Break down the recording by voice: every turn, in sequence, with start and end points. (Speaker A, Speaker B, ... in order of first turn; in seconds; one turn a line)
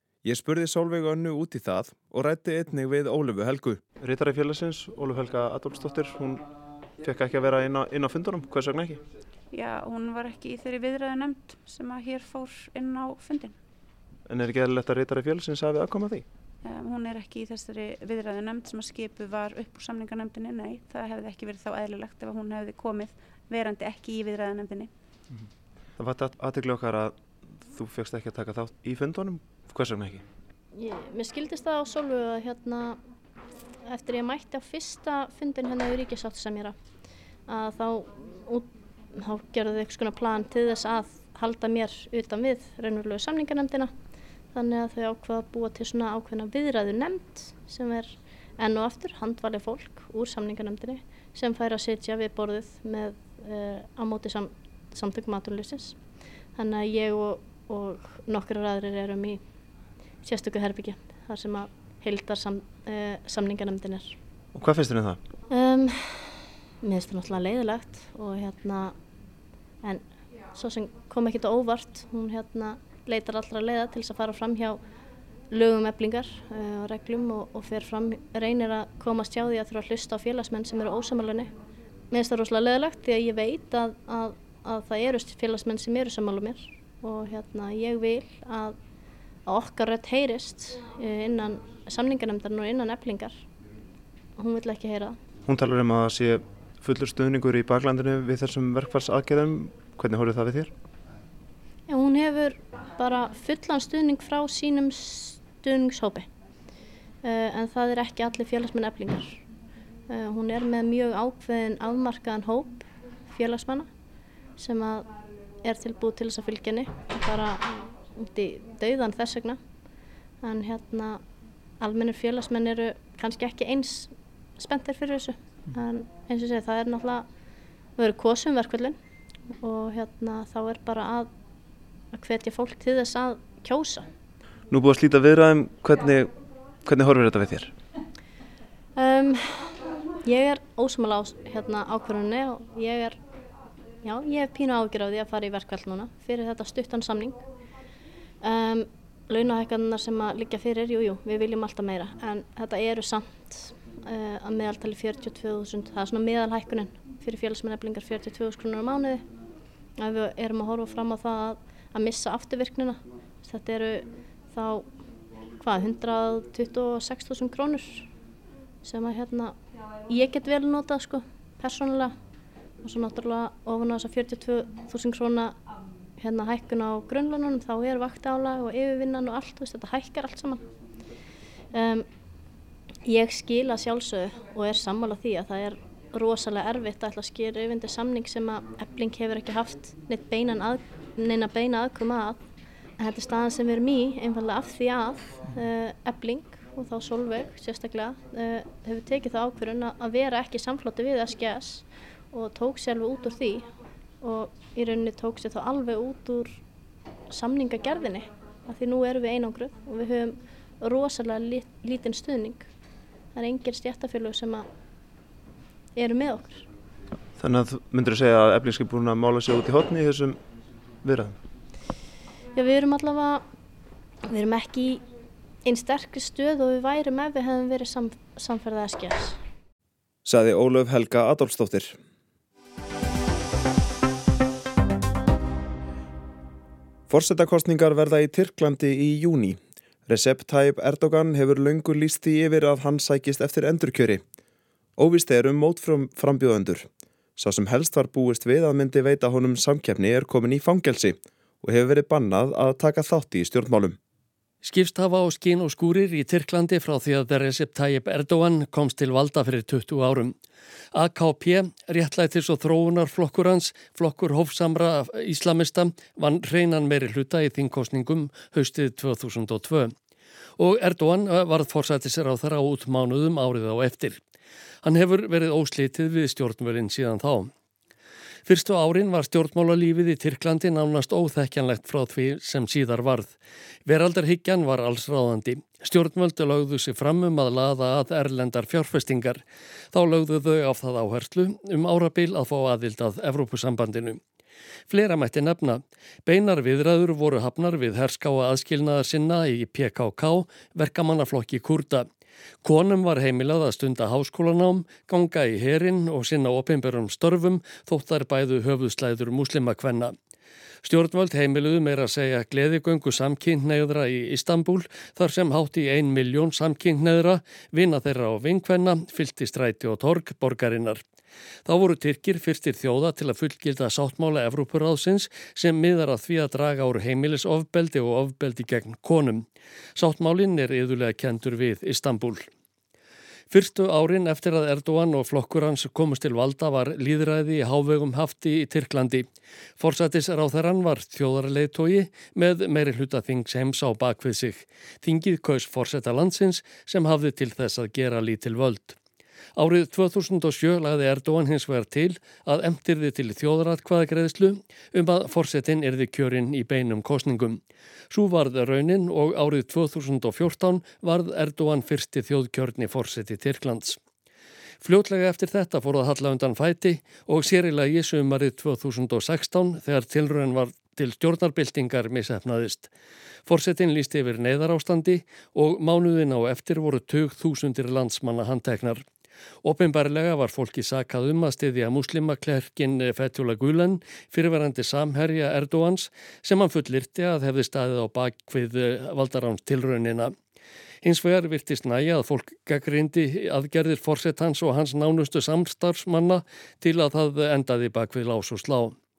Speaker A: 0.2-3.9
Speaker B: 4.0-6.5
Speaker B: 7.0-9.0
Speaker C: 9.5-13.6
Speaker B: 14.3-16.3
Speaker C: 16.6-24.9
Speaker B: 26.0-30.2
Speaker D: 30.7-33.0
Speaker D: 33.9-36.8
Speaker D: 37.5-43.9
Speaker D: 44.5-56.0
Speaker D: 56.6-59.4
Speaker D: 60.2-64.2
Speaker B: 64.5-65.2
Speaker D: 65.5-69.0
Speaker D: 69.8-74.8
Speaker D: 75.5-81.5
Speaker D: 82.1-88.8
Speaker D: 89.5-93.4
Speaker D: 94.4-95.2
Speaker B: 95.5-100.7
Speaker D: 101.9-106.3
Speaker D: 107.2-109.4
Speaker D: 110.1-113.9
Speaker D: 114.6-115.1
Speaker D: 115.6-119.6
Speaker D: 120.4-121.2
Speaker D: 121.8-127.3
Speaker D: 128.0-129.0
Speaker D: 129.6-131.3
Speaker D: 132.1-134.1
Speaker B: 134.7-137.7
Speaker D: 139.0-139.7
Speaker D: 140.2-143.2
Speaker D: 144.0-147.4
Speaker D: 148.4-159.2
Speaker D: 160.0-164.9
Speaker D: 165.6-168.1
Speaker D: 168.8-169.6
Speaker D: 170.1-172.2
Speaker D: 172.8-175.6
Speaker D: 176.2-180.6
Speaker D: 181.7-182.1
Speaker D: 183.1-192.4
Speaker D: 193.0-203.7
Speaker D: 204.2-206.6
Speaker D: 207.3-212.7
Speaker D: 213.3-214.7
Speaker D: 215.9-216.7
Speaker B: 217.4-220.4
Speaker B: 221.0-221.4
Speaker D: 222.5-223.4
Speaker D: 224.3-225.0
Speaker D: 225.7-229.4
Speaker A: 230.2-232.0
Speaker A: 237.1-244.2
Speaker A: 245.0-254.0
Speaker E: 254.6-260.4
Speaker E: 260.9-269.9
Speaker E: 270.6-274.2
Speaker E: 274.8-277.5
Speaker E: 278.5-294.2
Speaker E: 294.9-302.1
Speaker E: 302.6-310.1
Speaker E: 310.8-321.0
Speaker E: 321.7-332.5
Speaker E: 333.5-339.3
Speaker E: 339.8-349.0
Speaker E: 349.6-364.0
Speaker E: 364.8-372.9
Speaker E: 373.5-379.1
Speaker E: 379.6-390.3
Speaker E: 391.0-399.0